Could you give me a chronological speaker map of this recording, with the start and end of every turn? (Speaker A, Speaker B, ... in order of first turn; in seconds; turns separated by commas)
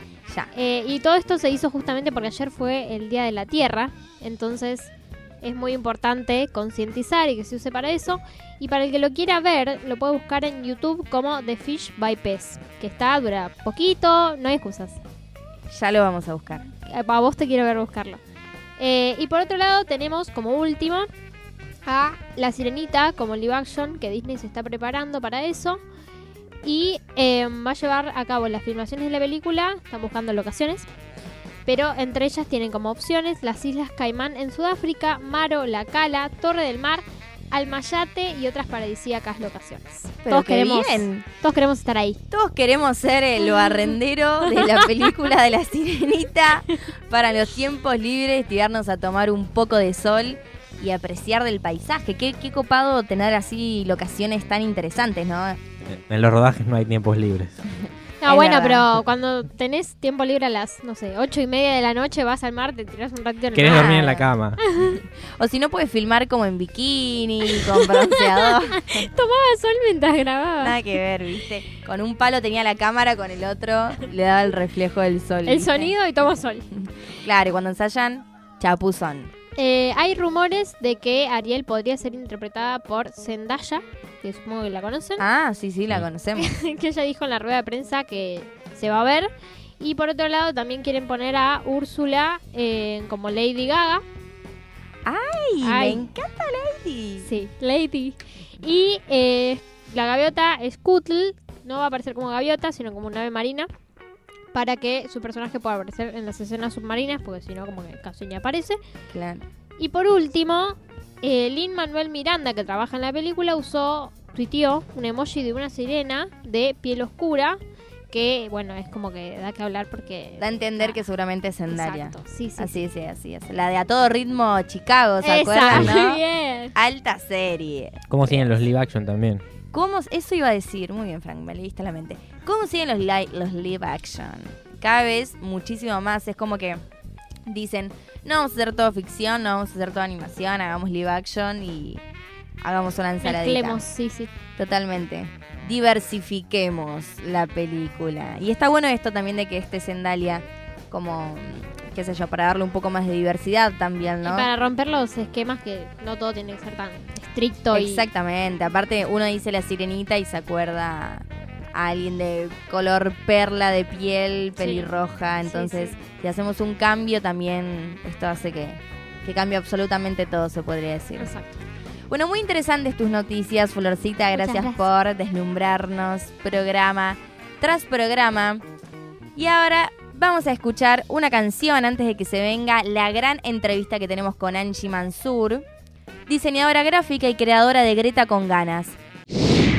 Speaker A: 0.5-15.0, Speaker B: 15.7-16.7, Speaker A: 16.8-18.2, Speaker A: 18.8-21.1, Speaker A: 21.8-25.8, Speaker A: 26.6-30.9, Speaker A: 31.6-42.2, Speaker B: 40.2-41.2, Speaker B: 42.3-55.6, Speaker A: 44.5-44.9, Speaker C: 55.9-57.6, Speaker A: 58.2-64.1, Speaker B: 58.2-58.9, Speaker C: 63.5-64.6, Speaker B: 63.6-64.3, Speaker A: 64.6-65.0, Speaker B: 64.8-69.1, Speaker A: 67.5-70.8, Speaker B: 70.6-75.9, Speaker A: 75.5-76.7, Speaker B: 77.2-79.3, Speaker A: 79.5-85.2, Speaker B: 85.2-86.5, Speaker A: 86.3-94.0, Speaker B: 95.0-97.3, Speaker A: 95.6-96.1, Speaker A: 97.2-103.7, Speaker A: 104.5-108.8, Speaker B: 109.1-109.4, Speaker A: 109.8-117.6, Speaker A: 118.1-121.0, Speaker B: 120.4-128.7, Speaker A: 121.7-122.9, Speaker A: 125.2-126.7, Speaker C: 128.1-129.4, Speaker B: 129.7-136.8, Speaker B: 137.4-142.0, Speaker B: 142.6-143.8, Speaker A: 143.2-144.3, Speaker B: 144.6-154.5, Speaker A: 154.2-158.1, Speaker B: 157.7-171.3, Speaker A: 164.6-164.9, Speaker A: 165.4-166.0, Speaker A: 171.2-171.6, Speaker B: 172.1-178.6, Speaker A: 174.3-174.9, Speaker B: 179.3-185.6, Speaker B: 186.3-188.9